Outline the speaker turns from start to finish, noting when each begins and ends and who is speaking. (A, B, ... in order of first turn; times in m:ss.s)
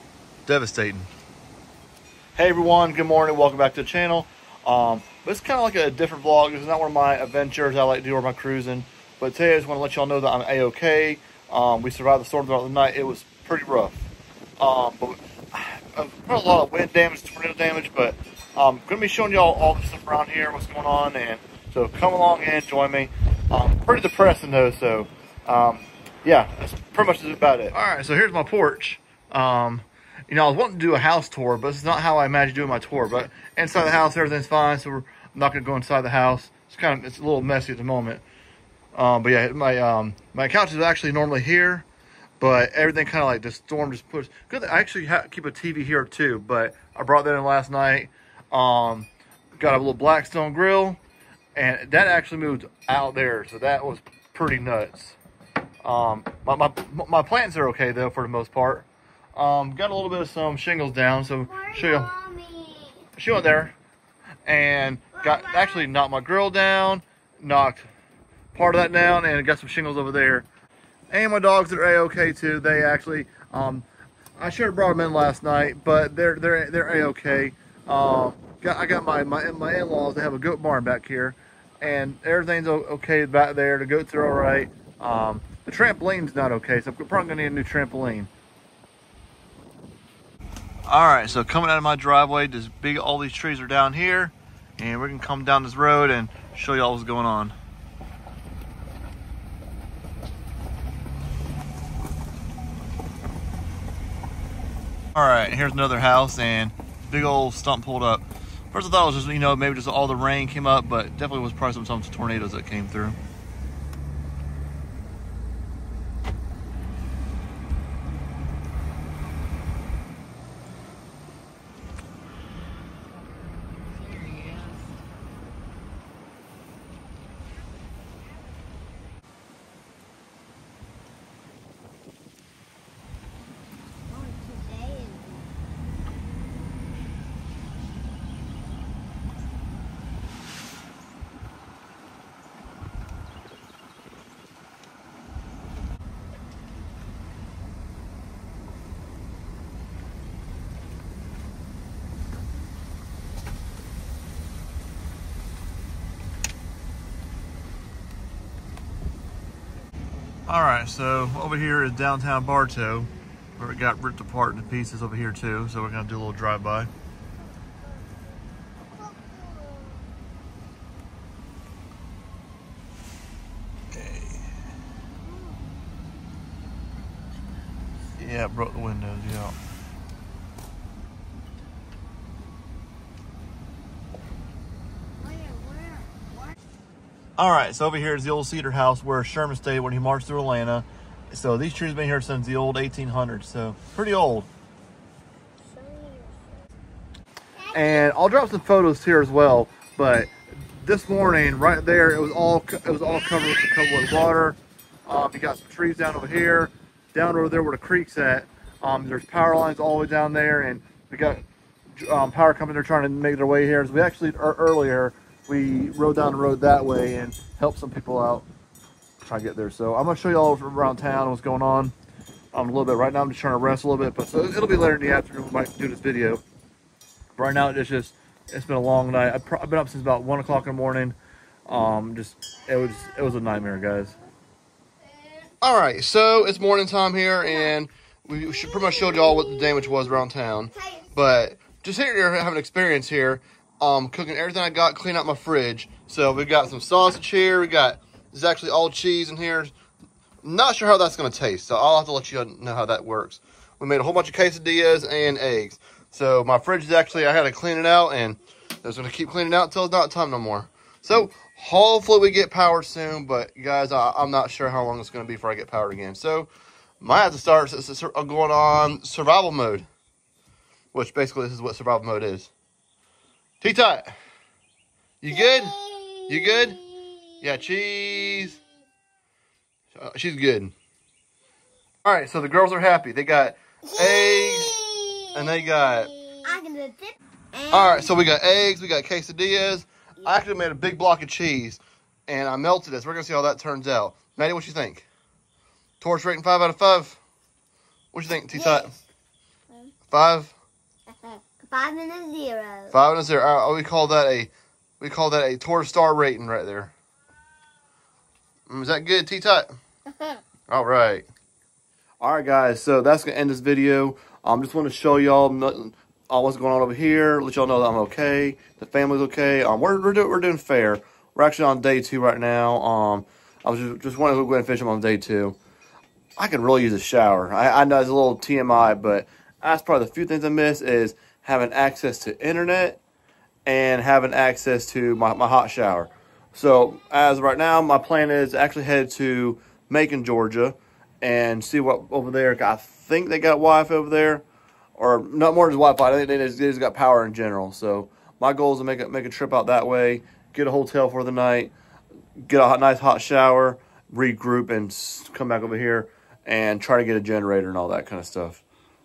0:00.5-0:01.1 A
0:02.4-0:14.0 A
0:14.6-0:38.2 A
0:39.0-0:41.9 A
0:42.4-0:51.0 A
0:51.6-0:55.2 A
0:55.8-1:02.1 A
1:01.4-1:03.0 B
1:03.2-1:03.8 A
1:04.5-1:07.9 A
1:05.2-1:05.8 B
1:08.5-1:10.5 A
1:11.1-1:13.8 A
1:14.4-1:28.3 A
1:30.9-1:37.6 A
1:45.2-1:53.2 A
2:14.1-2:15.5 B
2:40.5-2:46.9 A
2:49.0-2:50.0 B
2:53.9-2:54.4 A
2:55.3-2:55.6 B
2:58.2-2:59.6 A
3:05.2-3:06.3 B
3:07.4-3:14.5 A
3:15.6-3:16.4 B
3:17.7-3:18.0 B
3:17.7-3:31.4 A
3:32.0-3:38.5 A
3:39.2-3:41.9 A
3:42.5-3:46.4 A
3:47.4-3:51.2 A
3:51.7-3:54.1 A
3:55.6-4:09.7 A
3:58.7-3:59.9 B
4:10.4-4:26.5 A
4:27.0-4:29.9 A
4:30.9-4:32.5 A
4:33.6-4:34.1 A
4:35.2-4:36.8 A
4:35.3-4:37.1 B
4:37.4-4:38.6 A
4:39.9-4:40.7 A
4:42.0-4:44.8 A
4:43.9-4:48.1 B
4:45.3-4:46.2 A
4:47.7-4:55.1 A
4:56.0-4:57.2 A
4:58.1-4:59.0 A
4:58.5-4:58.9 B
5:00.1-5:00.6 A
5:01.2-5:02.9 B
5:02.9-5:06.9 A
5:08.7-5:09.7 A
5:10.7-5:11.3 A
5:12.2-5:25.6 A
5:26.4-5:33.0 A
5:33.7-5:44.4 A
5:45.0-5:51.7 A
5:52.4-5:58.6 A